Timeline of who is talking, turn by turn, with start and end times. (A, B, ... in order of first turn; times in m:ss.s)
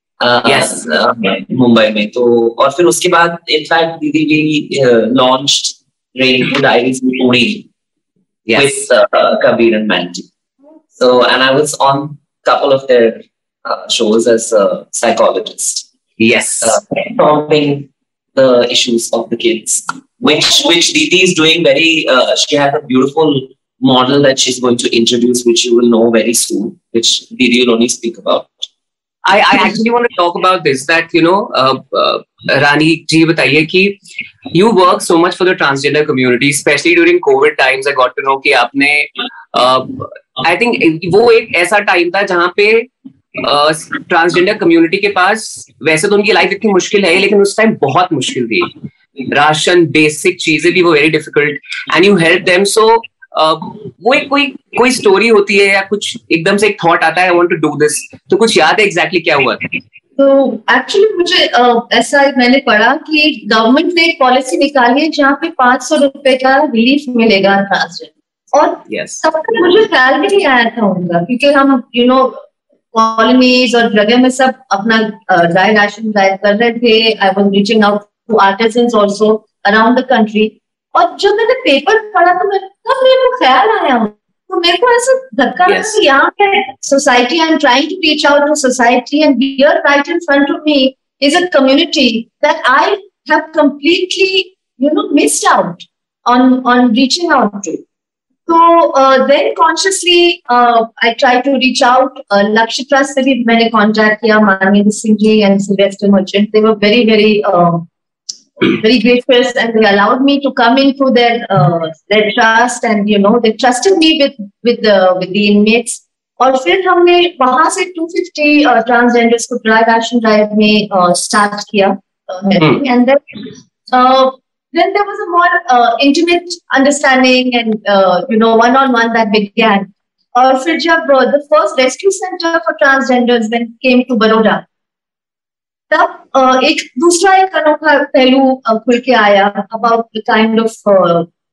0:00.2-0:07.7 A
0:00.4-0:00.8 B
0:08.5-0:08.7 B
0:08.6-0:10.2 A
0:11.0-0:15.8 A
0:16.2-0:16.8 B
0:16.6-0:28.6 A
0:29.2-0:34.0 B
0:34.5-0:48.7 B
0:49.3-0:59.7 B
1:00.2-1:12.4 C
1:08.9-1:09.2 B
1:12.9-1:37.8 C
1:25.6-1:26.0 B
1:38.5-1:47.9 C
1:48.6-2:03.4 C
2:03.9-2:14.6 C
2:15.9-2:21.3 C